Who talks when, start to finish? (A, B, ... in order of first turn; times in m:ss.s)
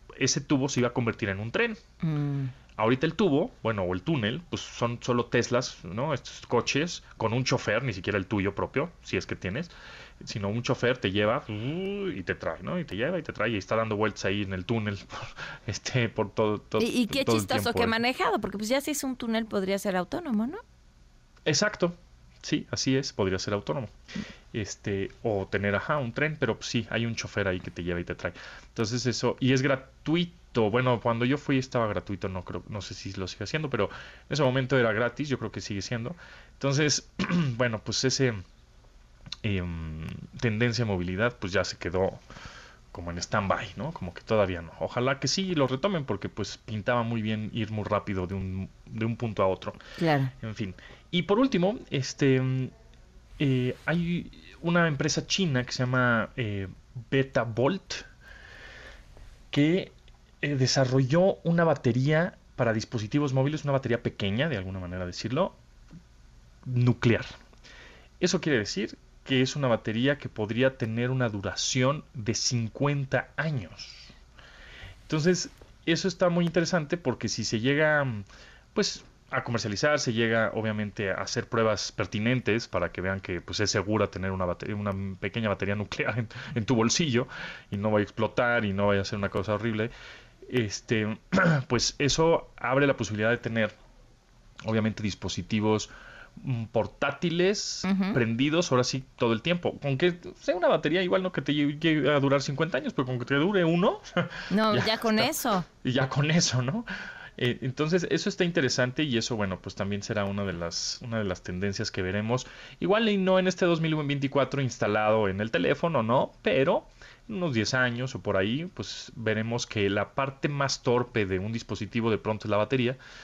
0:00.2-0:01.8 A
0:02.0-0:02.5 B
0:02.8-0:18.0 A
0:16.8-0:20.6 B
0:21.4-0:23.9 A
0:24.5-0:38.4 A
0:39.4-0:42.2 A
0:42.9-0:49.8 A
0:50.0-0:50.3 B
0:50.4-0:52.7 A
0:53.4-0:58.0 A
0:59.5-1:05.6 A
1:06.6-1:07.3 A
1:08.2-1:14.1 A
1:15.1-1:29.9 A
1:30.5-1:33.7 A
1:34.6-2:03.0 A
1:37.8-1:38.2 B
1:44.5-1:45.7 B